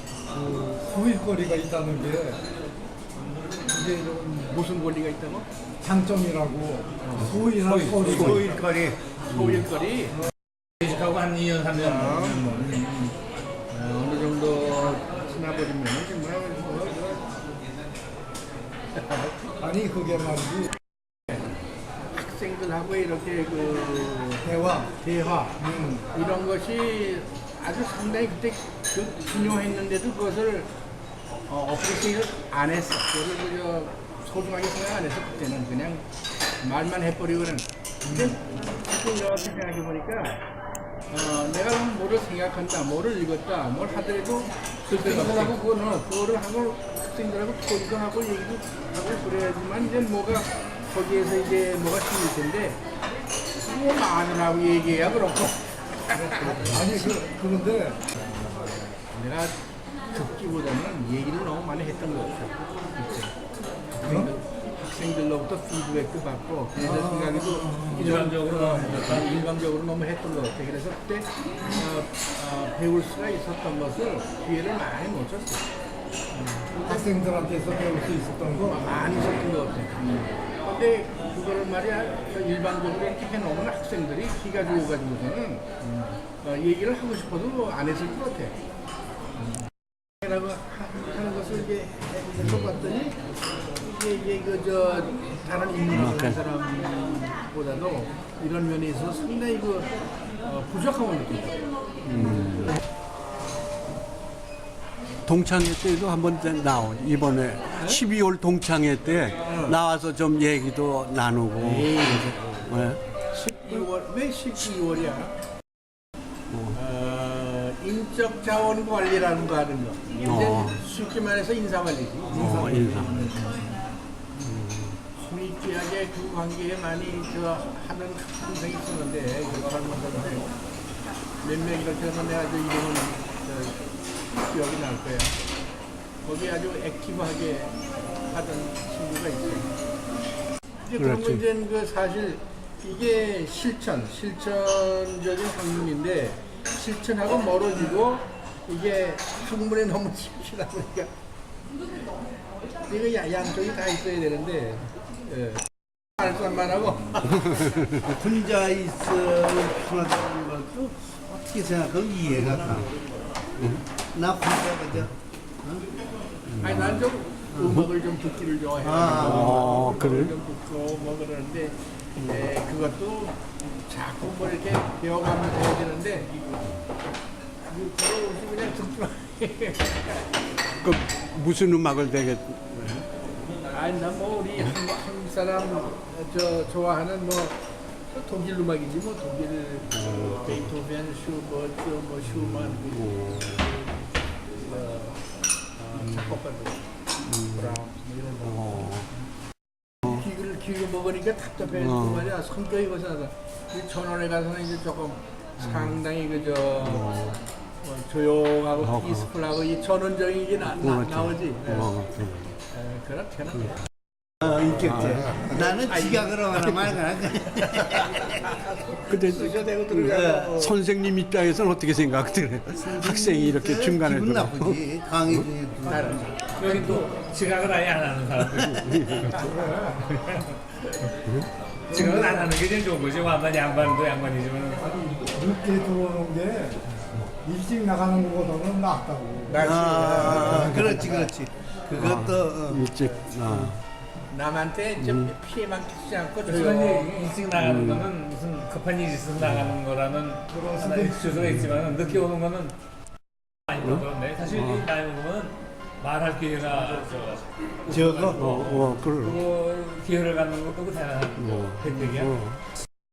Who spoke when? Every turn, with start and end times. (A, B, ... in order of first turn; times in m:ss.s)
0:00.3-0:02.4 A
0:03.7-0:05.5 B
0:05.8-0:06.9 A
0:07.0-0:07.4 B
0:07.1-0:09.6 C
0:07.8-0:08.6 D
0:08.0-0:08.6 B
0:09.3-0:10.2 B
0:10.8-0:13.1 D
0:11.8-0:12.5 B
0:13.7-0:17.2 B
0:19.0-0:19.3 B
0:19.6-0:20.7 A
0:22.1-0:25.6 B
0:24.6-0:24.9 A
0:25.7-0:26.0 A
0:26.1-0:30.7 B
0:31.5-0:36.0 B
0:36.6-0:40.4 B
0:41.1-0:52.8 B
0:44.9-0:45.5 D
0:53.6-0:57.2 B
0:56.4-0:57.1 C
0:57.4-0:57.9 A
0:59.0-0:59.5 B
1:00.1-1:03.3 B
1:04.0-1:15.6 B
1:07.6-1:09.3 D
1:16.9-1:17.3 A
1:17.9-1:18.5 A
1:18.6-1:28.6 B
1:30.2-1:33.2 B
1:33.8-1:39.9 B
1:35.9-1:36.4 C
1:40.4-1:41.6 B
1:42.0-1:42.8 C
1:45.2-1:53.0 C
1:49.4-1:49.8 B
1:51.6-1:52.7 B
1:53.3-1:55.4 B
1:56.5-1:56.7 C
1:56.7-2:03.3 B
2:00.2-2:00.8 C
2:02.3-2:03.3 C
2:02.4-2:03.3 D
2:04.4-2:05.0 C
2:05.2-2:10.5 B
2:11.4-2:13.8 B
2:14.3-2:15.3 B
2:16.2-2:17.8 B
2:18.3-2:19.7 B
2:20.9-2:31.1 B
2:21.0-2:21.4 C
2:32.8-2:35.6 B
2:36.2-2:37.6 B
2:37.4-2:37.8 C
2:38.0-2:42.9 E
2:42.5-2:42.9 C
2:44.1-2:45.8 E
2:46.5-2:47.0 C
2:46.6-2:56.3 B
2:48.8-2:49.5 E
2:49.1-2:50.3 C
2:57.7-3:00.2 B
3:00.8-3:03.1 C
3:03.7-3:07.6 B
3:08.1-3:14.0 B
3:10.0-3:10.3 C
3:12.6-3:13.6 C
3:14.6-3:15.2 B
3:15.8-3:16.8 B
3:17.2-3:17.8 C
3:17.3-3:19.0 B
3:18.4-3:19.1 C
3:20.0-3:27.2 B
3:21.8-3:22.3 C
3:25.6-3:26.0 C
3:26.8-3:27.4 C
3:27.8-3:31.9 B
3:28.8-3:29.2 C
3:30.7-3:32.5 C
3:32.7-3:33.8 B
3:34.4-3:38.2 E
3:34.6-3:35.5 C
3:35.3-3:36.9 B
3:37.5-3:40.7 B
3:39.1-3:45.5 C
3:40.2-3:40.4 E
3:42.8-3:46.2 E
3:45.9-3:47.0 B
3:46.5-3:50.6 D
3:48.4-3:49.6 C
3:49.4-3:49.9 B
3:51.9-3:55.2 D
3:55.4-3:56.7 A
3:57.4-3:59.5 A
3:59.4-4:01.3 B
3:59.6-4:02.8 E
4:00.1-4:00.8 C
4:01.9-4:03.8 C
4:04.3-4:07.1 B
4:05.0-4:05.3 C
4:06.4-4:12.7 D
4:07.5-4:08.1 C
4:09.4-4:09.7 C
4:10.6-4:11.2 A
4:11.3-4:11.8 C
4:13.7-4:22.4 D
4:13.8-4:14.8 C
4:17.9-4:18.5 E
4:18.4-4:19.4 C
4:21.4-4:22.6 C